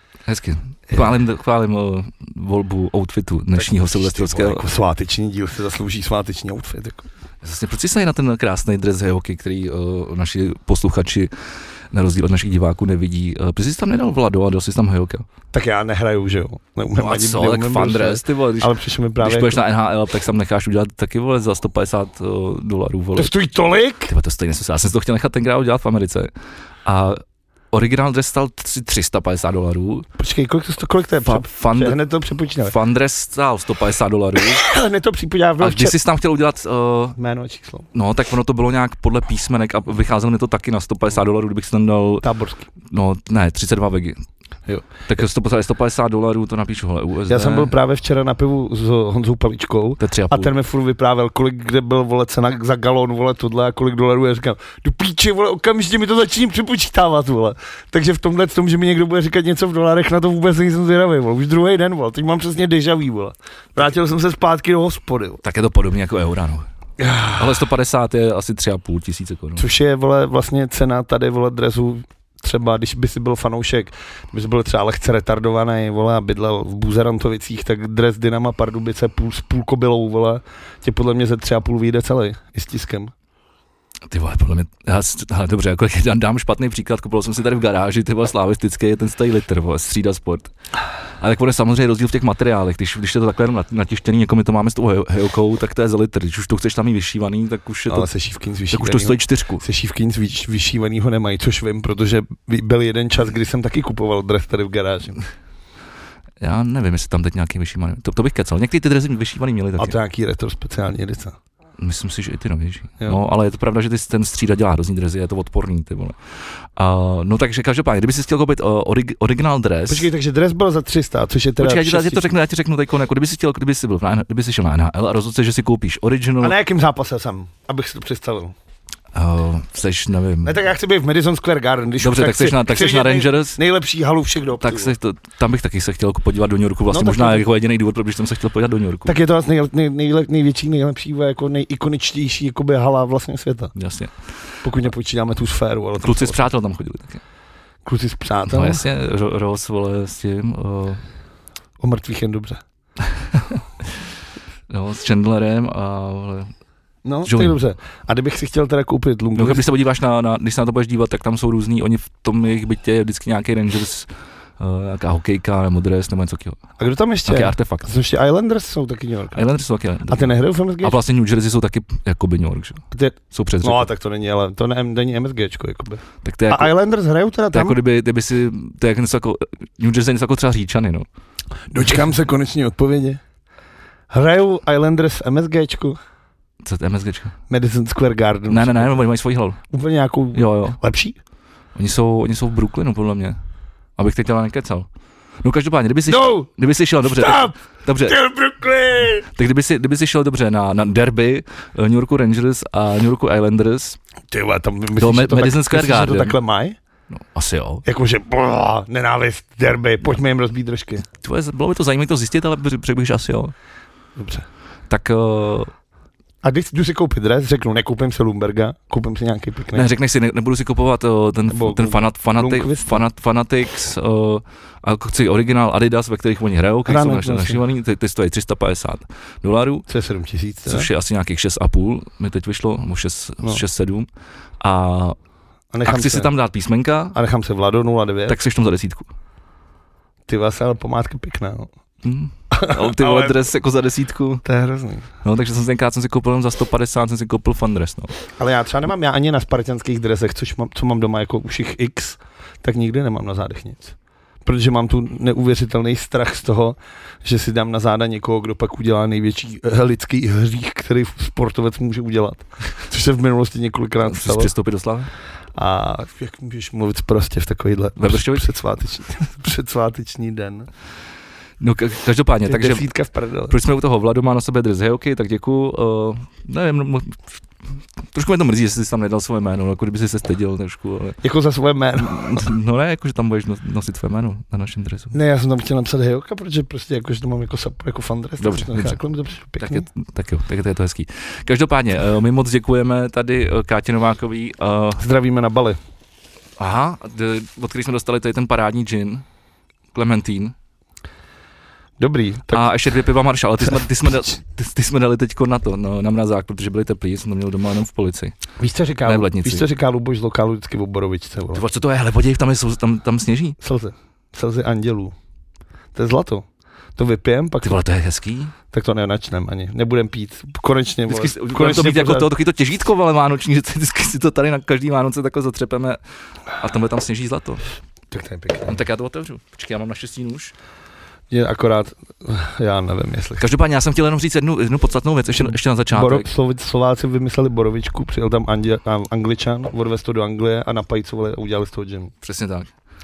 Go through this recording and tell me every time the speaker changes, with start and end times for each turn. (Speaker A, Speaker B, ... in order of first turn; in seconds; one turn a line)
Speaker A: 0.3-4.7
Speaker B: 3.5-7.1
Speaker A: 7.4-11.3
Speaker A: 11.9-15.3
Speaker B: 15.5-19.6
Speaker A: 17.0-23.3
Speaker B: 23.2-24.1
Speaker A: 24.1-26.3
Speaker A: 26.9-30.1
Speaker B: 30.2-32.8
Speaker A: 31.3-32.0
Speaker A: 32.7-34.6
Speaker B: 34.5-35.9
Speaker A: 35.6-37.2
Speaker B: 37.2-37.9
Speaker A: 37.9-42.3
Speaker B: 42.2-42.7
Speaker A: 42.9-44.2
Speaker A: 45.1-47.7
Speaker B: 47.3-65.4
Speaker A: 50.0-50.5
Speaker A: 65.4-66.7
Speaker B: 67.0-67.7
Speaker A: 67.3-69.7
Speaker B: 69.6-83.1
Speaker A: 84.1-90.5
Speaker A: 91.2-98.1
Speaker B: 97.9-105.2
Speaker A: 98.7-99.7
Speaker A: 106.4-110.0
Speaker B: 109.8-111.4
Speaker A: 111.8-116.2
Speaker A: 116.8-120.1
Speaker B: 119.9-122.3
Speaker A: 121.6-126.5
Speaker B: 126.4-128.6
Speaker A: 129.1-130.6
Speaker B: 130.4-134.9
Speaker A: 132.0-133.6
Speaker A: 134.6-139.2
Speaker B: 136.9-137.4
Speaker B: 139.1-143.7
Speaker A: 143.8-144.1
Speaker B: 144.6-146.4
Speaker A: 146.0-147.2
Speaker B: 147.8-148.9
Speaker A: 148.5-151.0
Speaker B: 151.8-152.6
Speaker A: 153.1-154.0
Speaker A: 154.7-156.5
Speaker B: 157.1-159.7
Speaker A: 157.2-157.6
Speaker A: 159.4-166.6
Speaker B: 166.8-169.4
Speaker A: 167.2-167.9
Speaker A: 169.3-173.9
Speaker B: 170.1-171.0
Speaker B: 172.9-177.8
Speaker A: 176.2-176.7
Speaker A: 177.5-181.1
Speaker B: 181.7-183.2
Speaker B: 184.1-186.0
Speaker A: 186.6-187.3
Speaker B: 187.5-189.0
Speaker A: 188.5-189.6
Speaker B: 189.7-191.2
Speaker A: 190.3-190.8
Speaker A: 191.8-193.4
Speaker A: 194.0-194.9
Speaker A: 195.4-198.2
Speaker B: 196.1-196.5
Speaker B: 197.0-199.3
Speaker A: 199.3-204.0
Speaker B: 204.3-206.8
Speaker A: 205.0-206.4
Speaker A: 207.1-207.8
Speaker B: 207.8-211.1
Speaker A: 211.2-213.5
Speaker B: 214.2-214.5
Speaker A: 214.9-215.7
Speaker B: 216.4-219.9
Speaker A: 219.7-229.9
Speaker B: 221.5-223.0
Speaker B: 226.9-227.6
Speaker B: 229.9-230.9
Speaker A: 230.7-234.1
Speaker A: 234.6-235.2
Speaker B: 235.7-236.3
Speaker A: 235.8-237.2
Speaker B: 237.1-238.4
Speaker A: 238.3-239.1
Speaker B: 240.3-241.7
Speaker A: 242.0-244.4
Speaker B: 242.5-243.4
Speaker B: 244.4-245.1
Speaker A: 245.2-248.1
Speaker B: 248.4-264.5
Speaker A: 264.0-265.1
Speaker B: 265.6-270.7
Speaker A: 268.0-268.6
Speaker A: 271.6-272.9
Speaker B: 272.5-273.5
Speaker A: 273.5-277.3
Speaker A: 278.1-281.2
Speaker B: 281.2-282.5
Speaker A: 282.0-285.1
Speaker B: 285.1-289.9
Speaker A: 288.4-289.0
Speaker A: 289.6-295.0
Speaker B: 295.0-295.8
Speaker A: 296.6-299.2
Speaker A: 299.9-300.6
Speaker B: 302.0-302.7
Speaker A: 302.5-308.4
Speaker B: 308.6-311.6
Speaker A: 309.1-309.7
Speaker A: 311.5-313.6
Speaker B: 313.6-315.1
Speaker B: 315.9-317.8
Speaker A: 317.6-318.5
Speaker B: 318.7-322.3
Speaker A: 321.1-326.0
Speaker A: 326.5-327.7
Speaker B: 328.1-328.8
Speaker A: 328.7-330.5
Speaker B: 331.3-333.4
Speaker A: 333.4-336.3
Speaker B: 335.9-342.1
Speaker A: 342.2-342.7